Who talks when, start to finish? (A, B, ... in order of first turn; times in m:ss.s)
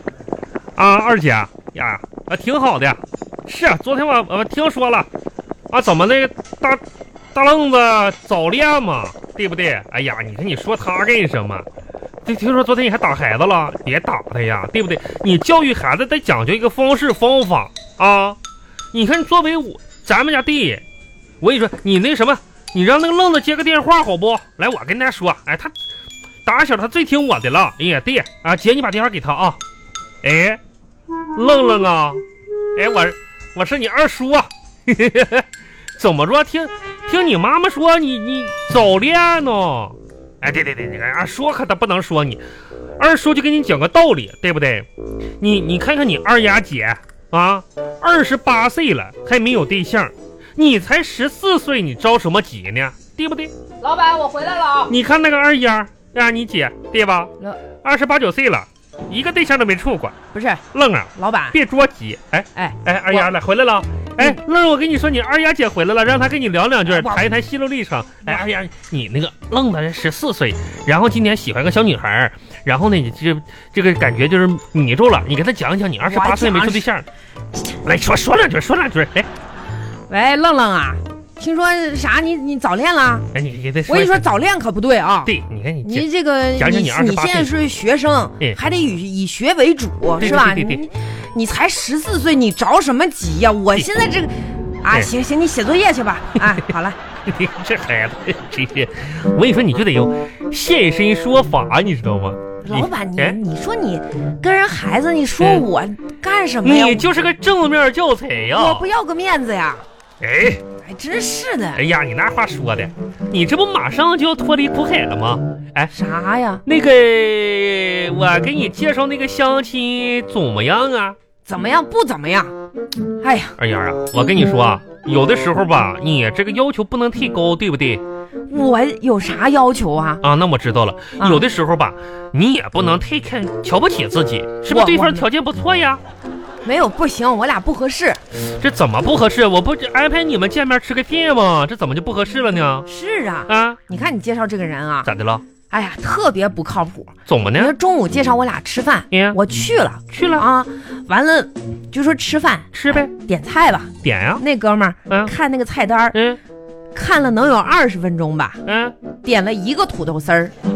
0:00.8-0:05.1 A
0:05.7-0:06.8 A
0:07.3-0:11.7 A
0:12.2-0:18.4 A
0:18.9-0:20.8 A
0:21.4-0:25.7 A
0:26.4-0:29.6 A
0:30.2-0:30.6 A
0:31.4-0:32.2 A
0:32.8-0:42.4 A
0:43.0-0:44.9 A
0:45.4-0:53.5 A
0:53.8-0:54.9 B
0:54.9-0:57.3 A
0:57.8-1:00.2 A
1:00.3-1:00.6 B
1:00.7-1:17.1 A
1:01.2-1:01.6 B
1:02.6-1:03.3 B
1:06.9-1:07.3 B
1:16.0-1:16.9 B
1:17.8-1:19.3 A
1:20.1-1:23.3 B
1:23.3-1:24.2 A
1:23.9-1:25.3 B
1:25.2-1:27.6 A
1:25.8-1:37.0 B
1:30.2-1:30.8 A
1:36.4-1:36.7 A
1:37.3-1:43.4 A
1:42.6-1:47.1 B
1:45.4-1:45.7 A
1:46.6-1:48.9 A
1:48.5-1:49.8 B
1:50.2-1:50.6 A
1:50.8-1:51.8 B
1:51.8-1:55.9 A
1:55.9-1:56.6 B
1:56.7-2:01.2 A
2:01.4-2:02.5 B
2:03.2-2:03.6 B
2:03.6-2:08.0 A
2:08.5-2:10.2 B
2:10.2-2:16.0 A
2:11.2-2:11.4 B
2:14.7-2:15.3 B
2:16.6-2:18.2 B
2:18.6-2:22.9 A
2:22.9-2:25.1 B
2:23.5-2:23.8 A
2:25.0-2:25.4 A
2:25.7-2:36.2 B
2:27.3-2:27.7 A
2:29.1-2:29.4 A
2:30.1-2:30.5 A
2:32.7-2:33.1 A
2:34.0-2:34.4 A
2:36.1-2:36.4 A
2:37.0-2:38.6 B
2:38.7-2:38.9 A
2:39.2-2:40.5 B